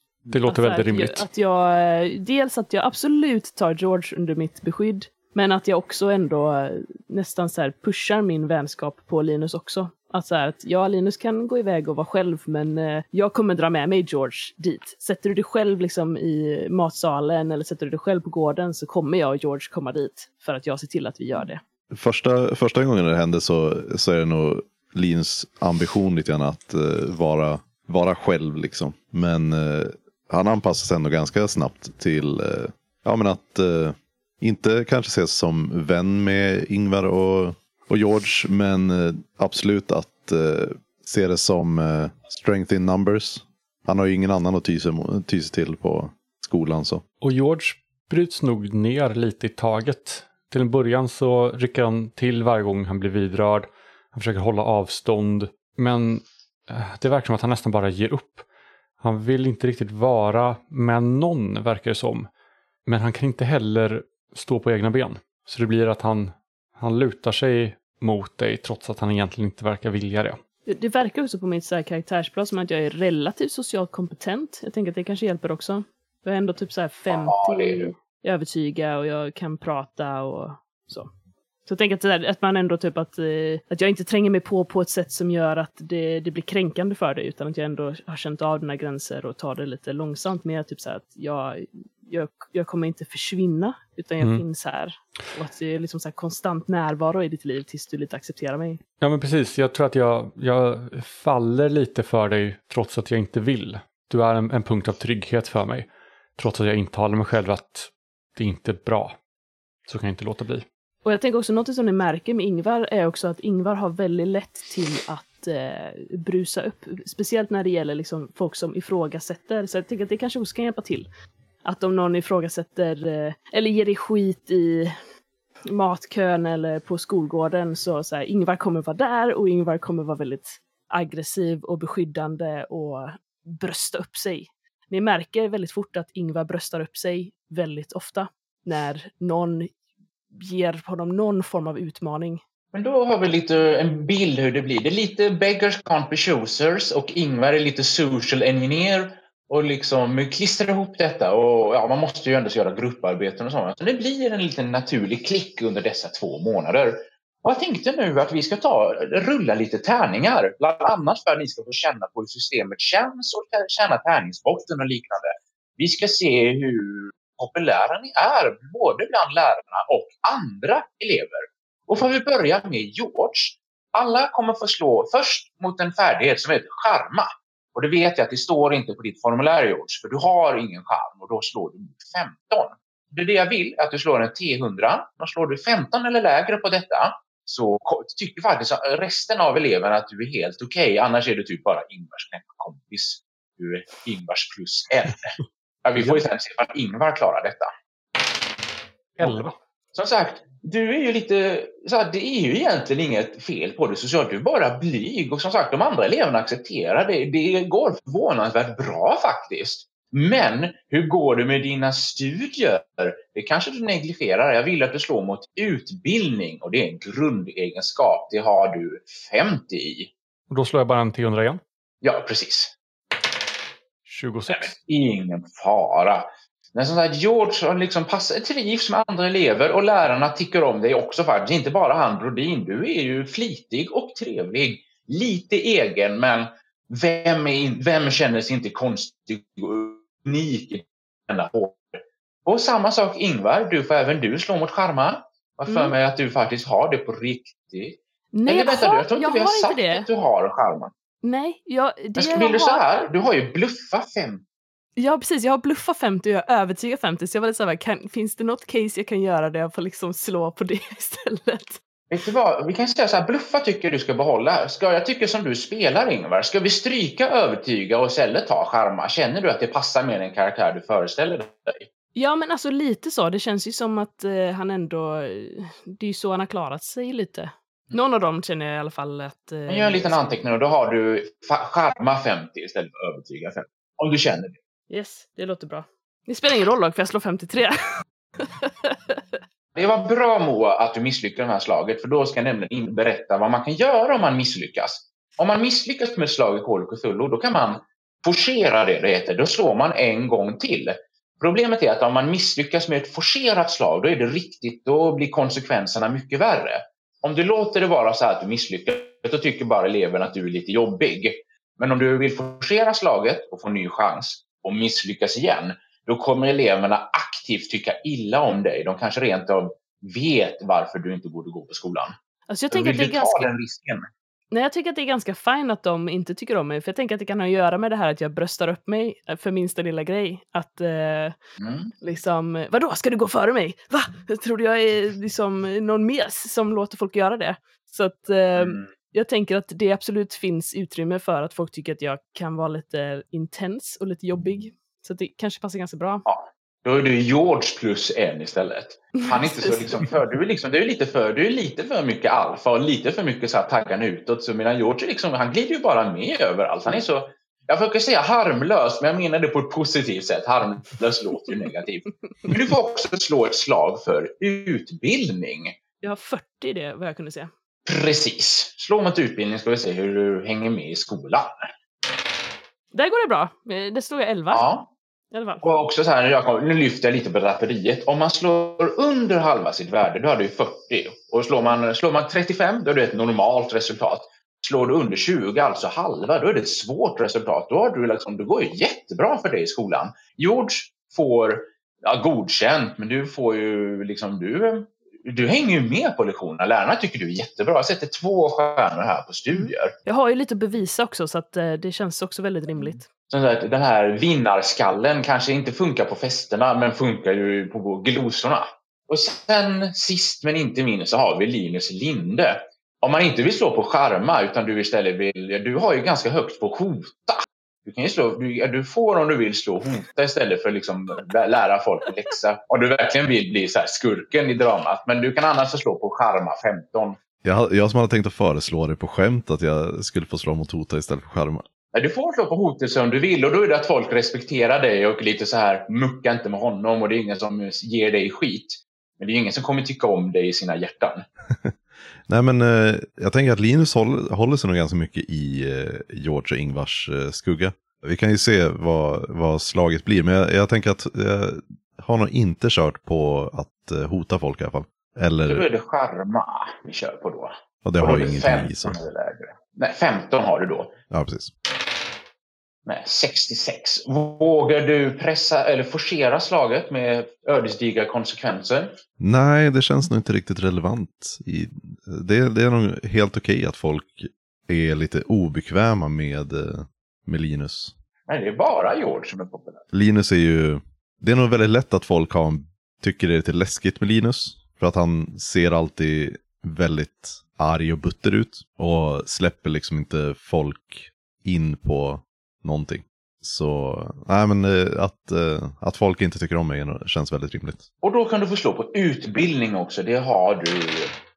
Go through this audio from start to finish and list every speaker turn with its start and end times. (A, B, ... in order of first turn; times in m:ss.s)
0:00.3-0:01.2 A
0:00.5-0:21.6 B
0:21.9-0:47.0 C
0:47.2-0:58.4 A
0:59.0-1:02.3 A
1:02.9-1:10.4 A
1:10.7-1:21.1 B
1:17.1-1:17.9 D
1:21.7-1:38.8 B
1:39.0-1:49.2 A
1:49.9-1:50.7 A
1:51.0-2:01.1 B
2:01.6-2:04.9 B
2:05.7-2:19.7 B
2:20.4-2:22.4 B
2:22.7-3:17.7 D
3:19.2-3:19.6 A
3:19.2-3:40.1 D
3:40.5-3:41.6 A
3:42.0-3:42.7 D
3:44.1-3:44.7 A
3:44.5-4:10.9 D
4:05.7-4:06.0 B
4:08.3-4:10.1 B
4:11.2-4:12.8 B
4:12.2-4:14.4 D
4:15.0-4:21.8 B
4:22.1-4:31.9 D
4:32.2-4:40.2 B
4:39.7-4:44.6 D
4:44.9-4:47.8 B
4:48.4-4:49.2 B
4:49.8-5:22.1 D
5:22.5-5:23.5 B
5:22.7-5:24.1 D
5:24.5-5:31.4 B
5:31.6-5:31.9 D
5:32.0-5:46.2 B
5:38.6-5:38.9 D
5:46.3-6:05.8 D
5:49.2-5:49.9 B
6:06.0-6:07.5 B
6:07.9-6:11.7 D
6:12.9-6:14.7 B
6:14.5-6:14.9 D
6:15.3-6:15.6 B
6:15.6-6:39.9 D
6:40.1-6:43.1 B
6:43.3-7:07.2 D
7:07.4-7:11.6 C
7:11.9-7:21.2 D
7:21.6-7:35.7 C
7:35.5-7:40.9 D
7:37.8-7:39.0 C
7:41.1-7:41.5 C
7:42.9-7:48.9 D
7:49.2-7:57.9 C
7:58.3-7:59.8 D
7:59.9-8:17.9 C
8:18.0-8:21.1 D